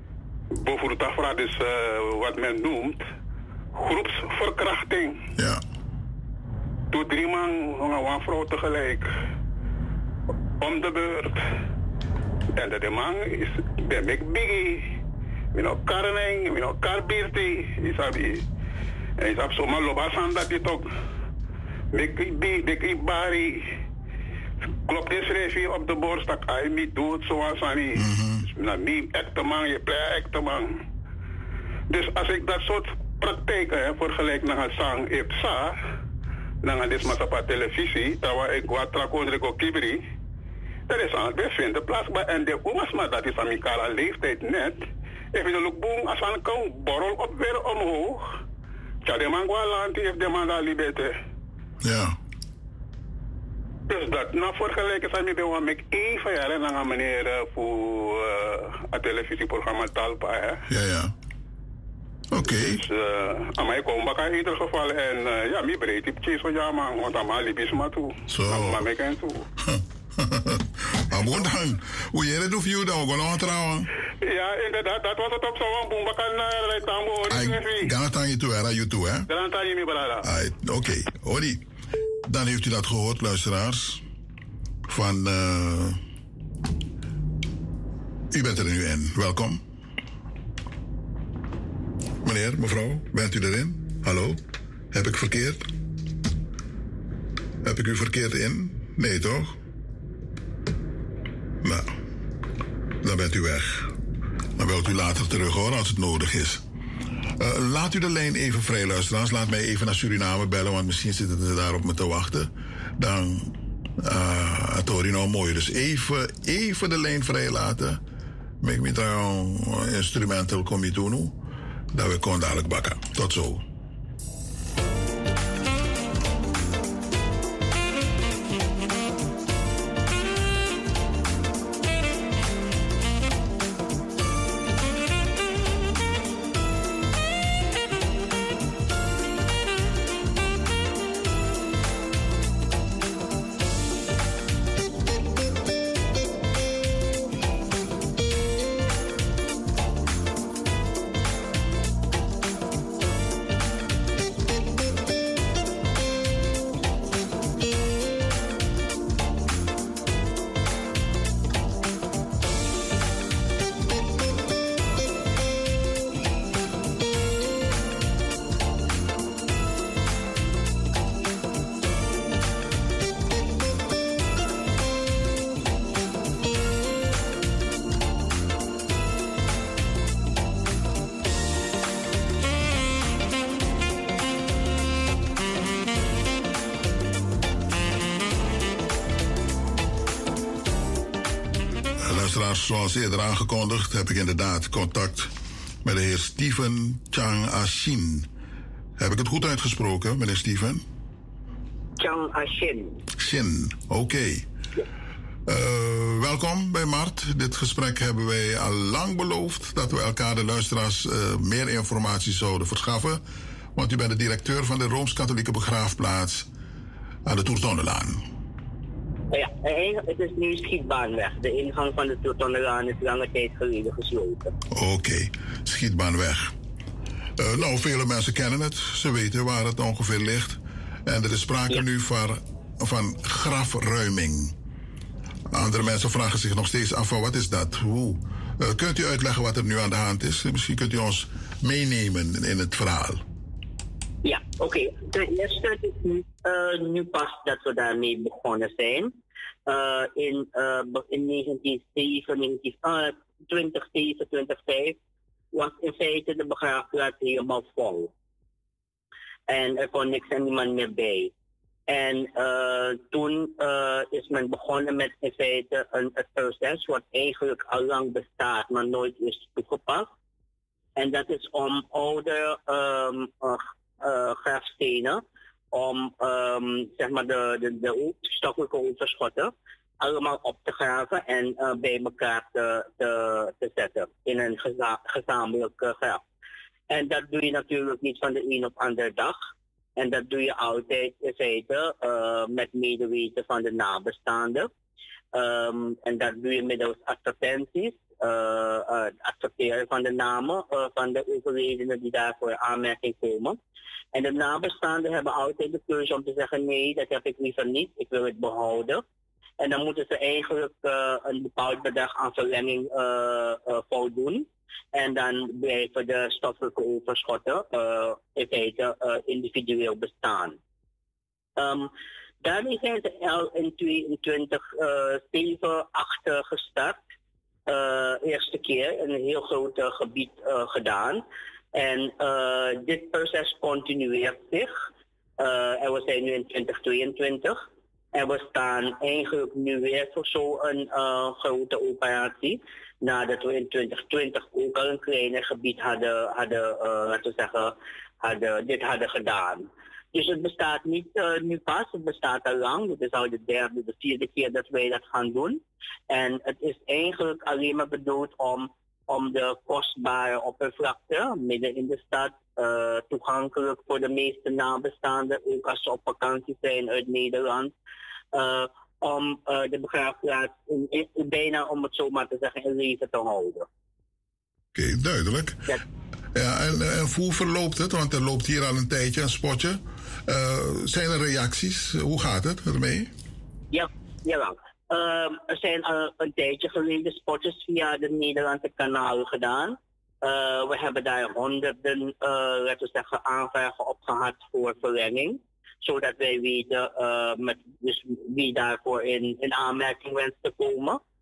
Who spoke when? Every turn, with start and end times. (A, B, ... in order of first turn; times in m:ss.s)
0:00.6-0:03.0 A
0:03.7-0:05.2 A
0:05.4-0:05.6 B
0:06.9-0:09.1 A
0:10.6-0:11.4 A
0:12.6-0:14.8 A
0:15.5-0:18.4 A
0:19.2-0:20.8 A
0:21.9-0:23.6 A
0:24.9-0:28.0 A
0:28.0-0:28.4 B
0:28.5-0:30.7 A
0:31.9-0:35.7 A
0:36.6-0:40.0 A
0:40.9-0:48.3 A
0:49.0-0:51.1 A
0:51.8-0:52.2 B
0:53.9-1:00.6 A
1:00.7-1:01.1 B
1:02.3-1:02.8 B
1:02.6-1:09.4 A
1:08.3-1:08.8 B
1:09.6-1:13.9 B
1:14.2-1:17.9 A
1:17.3-1:19.3 B
1:19.3-1:20.2 A
1:20.2-1:21.6 B
1:22.2-1:24.0 B
1:24.9-1:26.0 B
1:28.3-1:29.6 B
1:32.2-1:34.4 B
1:34.9-1:35.7 B
1:37.6-1:39.6 B
1:41.6-1:41.9 B
1:43.0-1:43.9 B
1:44.6-1:46.6 B
1:47.4-1:58.0 B
1:58.6-2:01.4 B
2:01.9-2:03.6 B
3:12.0-3:15.3 B
3:15.8-3:18.3 B
3:19.0-3:20.8 B
3:22.0-3:23.0 C
3:23.1-3:24.5 B
3:25.4-3:33.2 B
3:33.7-3:36.5 B
3:37.2-3:38.2 B
3:39.3-3:44.5 C
3:44.7-3:46.5 B
3:47.4-3:54.5 B
3:55.5-4:03.2 B
4:04.2-4:09.1 C
4:09.7-4:15.0 C
4:15.5-4:18.1 C
4:19.5-4:21.3 C
4:21.9-4:30.1 C
4:31.0-4:46.2 C
4:46.9-4:49.4 C
4:50.0-4:54.7 C
4:55.3-5:03.6 C
5:04.1-5:09.0 C
5:09.6-5:20.6 C
5:21.6-5:21.9 C
5:22.4-5:27.0 C
5:27.7-5:31.2 C
5:31.7-5:34.7 C
5:35.4-6:07.7 C
6:08.3-6:13.7 C
6:14.7-6:15.6 B
6:16.3-6:23.1 B
6:23.7-6:41.0 C